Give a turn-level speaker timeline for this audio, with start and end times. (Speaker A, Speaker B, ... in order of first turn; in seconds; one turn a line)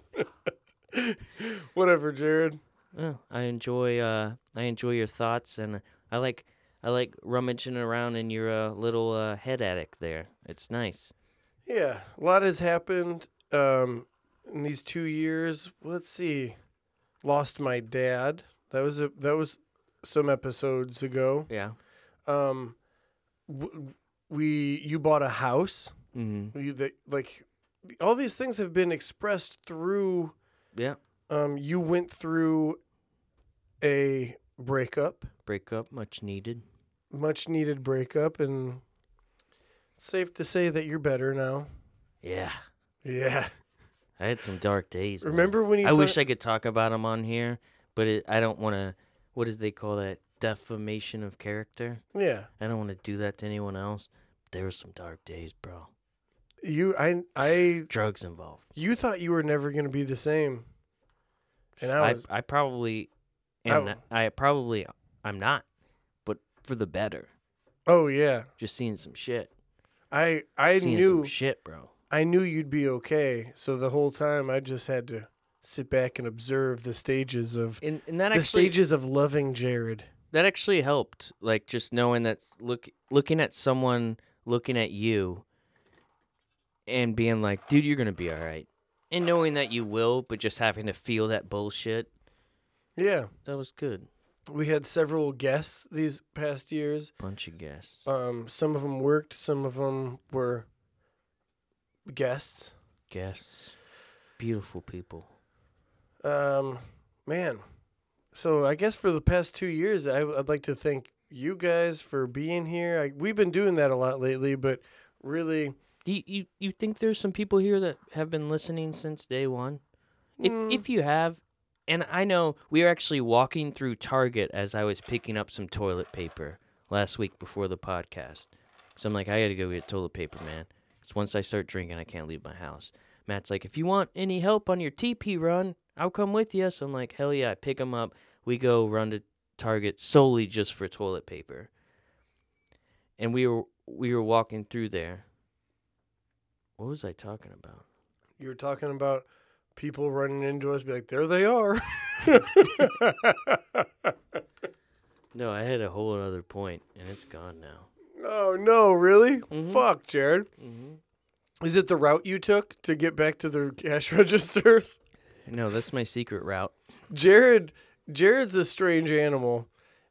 Speaker A: 0.9-2.6
Speaker B: 2.9-11.1
Speaker A: 11.7-16.6
Speaker A: 17.2-21.5
Speaker B: 21.5-21.8
Speaker A: 22.3-22.8
Speaker A: 23.5-25.9
Speaker B: 26.1-26.6
Speaker A: 26.5-30.4
Speaker A: 31.3-32.8
Speaker A: 33.8-35.3
Speaker B: 35.5-36.6
Speaker A: 37.1-38.8
Speaker A: 40.0-41.7
Speaker B: 42.2-42.6
Speaker A: 43.0-43.5
Speaker B: 44.2-52.0
Speaker A: 45.2-46.2
Speaker A: 52.1-52.5
Speaker B: 52.6-55.9
Speaker A: 56.6-57.9
Speaker B: 57.8-58.6
Speaker A: 58.8-60.7
Speaker B: 61.8-63.1
Speaker A: 61.8-62.2
Speaker B: 63.6-65.7
Speaker A: 63.7-64.0
Speaker B: 66.2-67.3
Speaker A: 67.9-68.5
Speaker B: 68.6-69.5
Speaker A: 70.1-71.3
Speaker B: 70.8-71.9
Speaker A: 72.1-77.8
Speaker B: 77.8-78.8
Speaker A: 78.3-80.1
Speaker B: 80.3-85.5
Speaker B: 86.9-92.1
Speaker A: 93.0-93.3
Speaker B: 93.5-94.1
Speaker A: 94.5-97.1
Speaker B: 97.2-98.1
Speaker A: 98.1-100.7
Speaker A: 102.1-102.7
Speaker B: 103.1-103.8
Speaker B: 104.4-105.3
Speaker A: 106.2-107.6
Speaker A: 108.3-115.8
Speaker B: 116.0-119.8
Speaker A: 120.4-120.8
Speaker B: 120.4-141.7
Speaker B: 143.2-145.2
Speaker B: 146.8-147.9
Speaker A: 148.4-154.1
Speaker B: 155.3-157.9
Speaker A: 158.2-160.5
Speaker B: 159.5-159.8
Speaker B: 160.6-161.0
Speaker A: 161.6-165.0
Speaker B: 165.5-166.7
Speaker A: 167.1-169.7